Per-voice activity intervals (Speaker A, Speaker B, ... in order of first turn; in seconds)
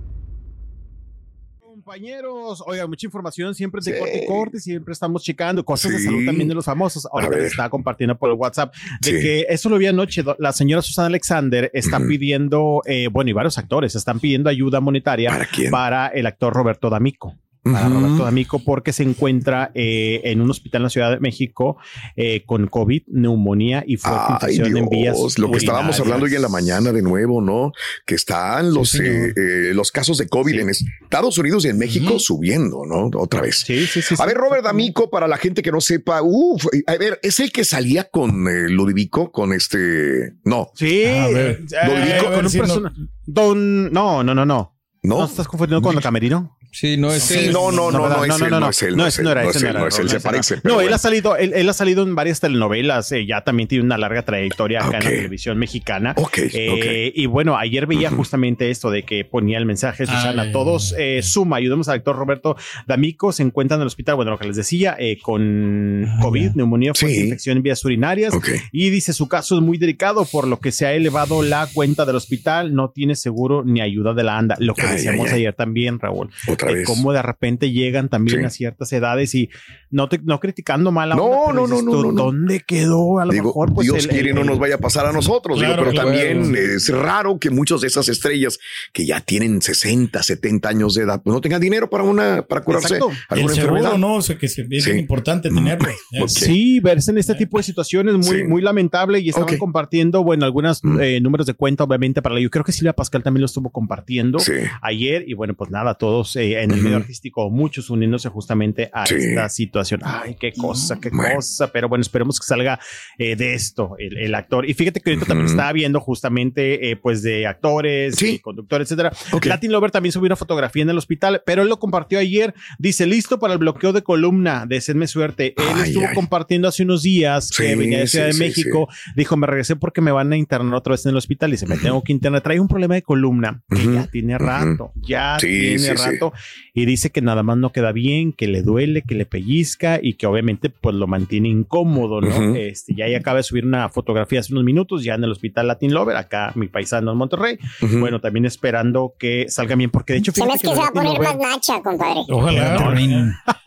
Speaker A: 1.6-26.8, 33.6-34.9, 40.8-46.5, 47.7-84.7, 92.7-93.3, 96.3-151.4, 152.5-153.1
Speaker B: 3.8-4.5, 5.7-6.5, 7.2-7.6, 9.0-9.3, 11.8-12.1, 15.3-15.8, 17.6-18.3, 24.0-40.7, 41.8-42.5, 45.0-46.0, 47.2-51.0, 54.8-55.3, 56.2-57.0, 57.9-58.2, 66.9-67.4, 68.3-68.6, 74.8-75.4, 76.5-77.0, 81.1-82.3, 83.3-94.0, 94.8-96.5, 98.2-98.5, 99.3-99.6, 104.4-104.7, 106.7-107.0, 109.0-109.5, 111.1-111.4, 115.1-115.7, 118.1-118.4, 119.3-119.6, 125.6-126.2, 127.5-128.8, 131.7-132.0, 133.7-134.8, 135.4-136.2, 142.2-142.6, 147.8-148.1
Speaker C: 25.5-26.1, 31.9-32.2, 41.0-42.9, 47.2-48.1, 60.1-60.9, 66.2-66.5, 85.5-86.5, 93.3-96.5, 110.6-110.9, 152.3-153.4
Speaker D: 28.8-29.3, 46.7-48.0, 85.8-86.6
Speaker E: 150.3-152.5